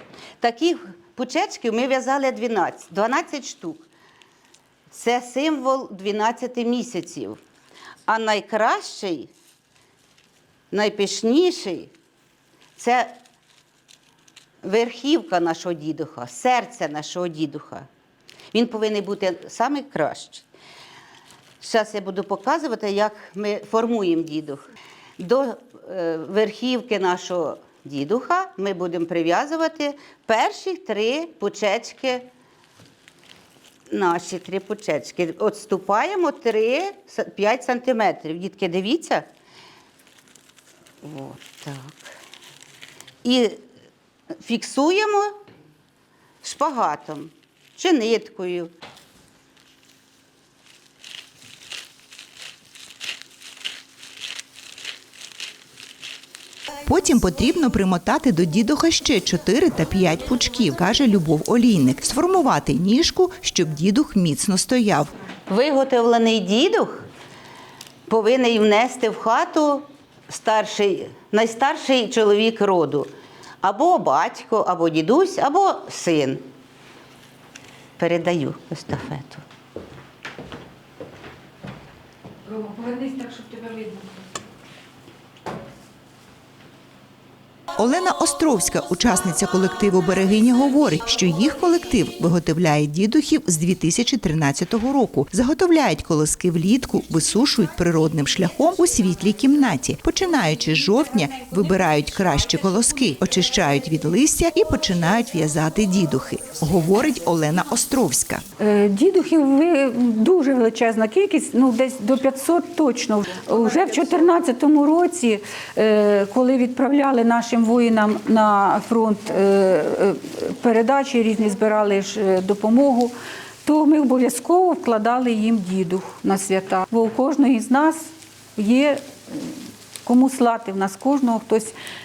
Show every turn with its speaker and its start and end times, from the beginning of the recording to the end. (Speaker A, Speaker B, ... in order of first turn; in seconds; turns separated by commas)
Speaker A: 0.4-3.9, Speaker A: 4.9-7.4, Speaker A: 8.1-9.3, Speaker A: 10.7-11.9, Speaker A: 12.8-13.1, Speaker A: 14.6-17.9, Speaker A: 18.5-20.5, Speaker A: 21.6-24.6, Speaker A: 25.2-32.3, Speaker A: 33.9-39.3, Speaker A: 41.0-42.0, Speaker A: 43.2-43.6, Speaker A: 44.4-45.3, Speaker A: 46.4-48.7, Speaker B: 56.9-65.1, Speaker A: 65.5-67.0, Speaker A: 68.1-73.1, Speaker A: 73.6-76.4, Speaker A: 78.0-79.4, Speaker C: 82.5-84.0, Speaker B: 87.8-108.4, Speaker C: 108.6-129.3, Speaker C: 130.0-131.7